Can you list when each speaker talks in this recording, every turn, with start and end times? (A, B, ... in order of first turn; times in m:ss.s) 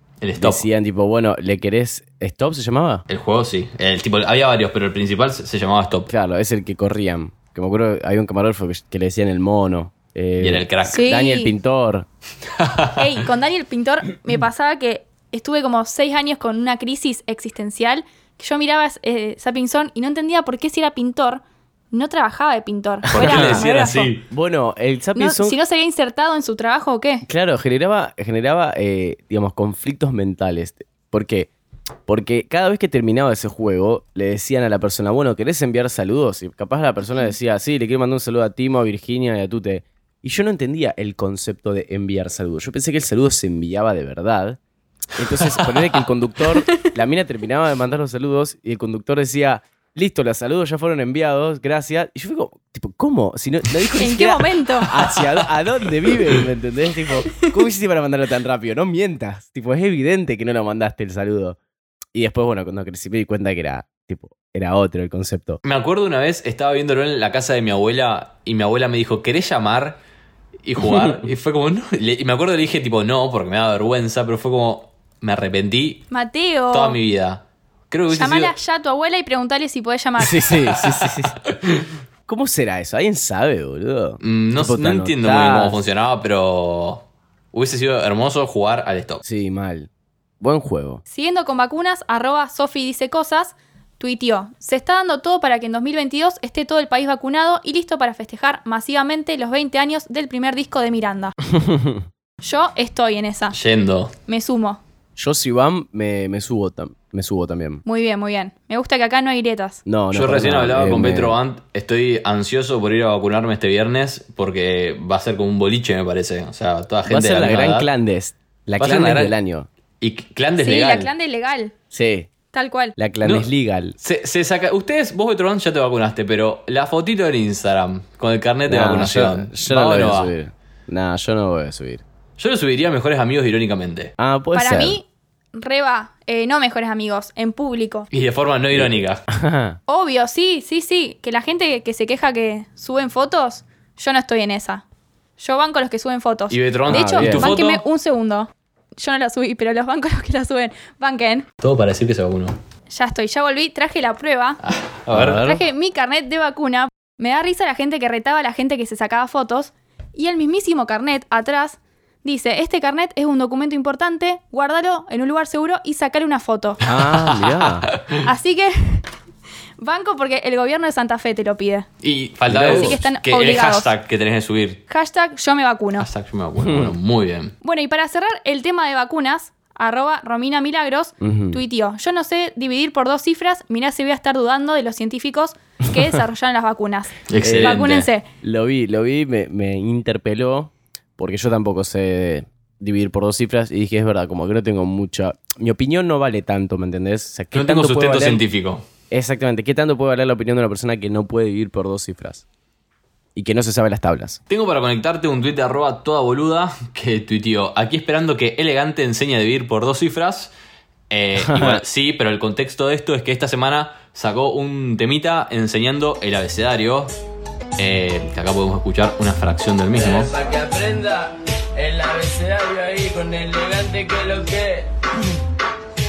0:00.2-0:00.6 A
0:00.4-0:03.0 B
0:03.1-0:06.1 A
0:06.1-0:12.1 B
0:10.4-0:11.0 A
0:10.8-0:11.5 C
0:12.6-0:13.0 A
0:13.0-0:24.1 C
0:23.1-0:23.7 B
0:23.1-0:24.2 A
0:24.3-0:25.6 B
0:25.2-0:27.2 C
0:27.2-0:31.5 B
0:32.1-0:44.6 B
0:45.2-1:01.6 B
0:45.4-0:45.8 A
0:54.0-0:54.9 C
0:54.9-0:55.5 A
1:02.1-1:05.6 B
1:05.6-1:10.0 A
1:10.6-1:16.0 A
1:10.8-1:11.1 B
1:16.1-1:17.0 C
1:16.7-1:18.5 A
1:18.1-1:20.5 C
1:20.2-1:21.4 B
1:20.7-1:21.8 A
1:22.3-1:25.8 B
1:24.2-1:29.2 A
1:29.2-1:31.0 B
1:31.1-1:41.4 C
1:41.5-1:42.0 B
1:42.4-1:43.5 C
1:43.5-1:44.1 A
1:44.3-1:44.8 C
1:45.2-1:47.8 B
1:47.8-1:49.8 C
1:49.8-1:51.4 B
1:50.1-1:57.9 A
1:57.0-1:59.7 B
1:58.8-1:59.3 A
2:00.0-2:01.1 A
2:00.6-2:01.7 C
2:01.9-2:02.3 B
2:02.5-2:02.9 C
2:03.0-2:03.9 B
2:03.2-2:03.5 A
2:04.0-2:10.3 A
2:08.7-2:12.0 B
2:12.4-2:14.1 A
2:14.2-2:15.0 B
2:14.5-2:18.1 C
2:18.1-2:19.2 A
2:18.7-2:19.8 B
2:19.9-2:24.8 C
2:25.4-2:31.4 C
2:26.5-2:27.8 A
2:26.9-2:27.5 B
2:31.6-2:32.6 A
2:32.9-2:34.6 C
2:34.6-2:35.5 A
2:35.1-2:35.6 B
2:35.4-2:46.8 C
2:46.8-2:47.9 B
2:46.9-2:47.7 A
2:48.2-2:49.0 C
2:49.8-2:51.9 C
2:52.0-2:54.8 A
2:52.5-2:53.0 B
2:52.6-2:53.9 C
2:54.9-2:56.1 C
2:56.0-2:57.5 A
2:56.6-2:57.0 B
2:57.6-3:08.2 C
3:01.2-3:01.6 B
3:07.3-3:08.1 A
3:07.4-3:07.8 B
3:08.4-3:18.4 B
3:17.5-3:18.8 A
3:19.1-3:22.4 B
3:23.3-3:24.4 B
3:24.5-3:30.5 A
3:31.1-3:37.1 A
3:31.4-3:31.8 B
3:37.8-3:40.3 A
3:39.9-3:44.9 D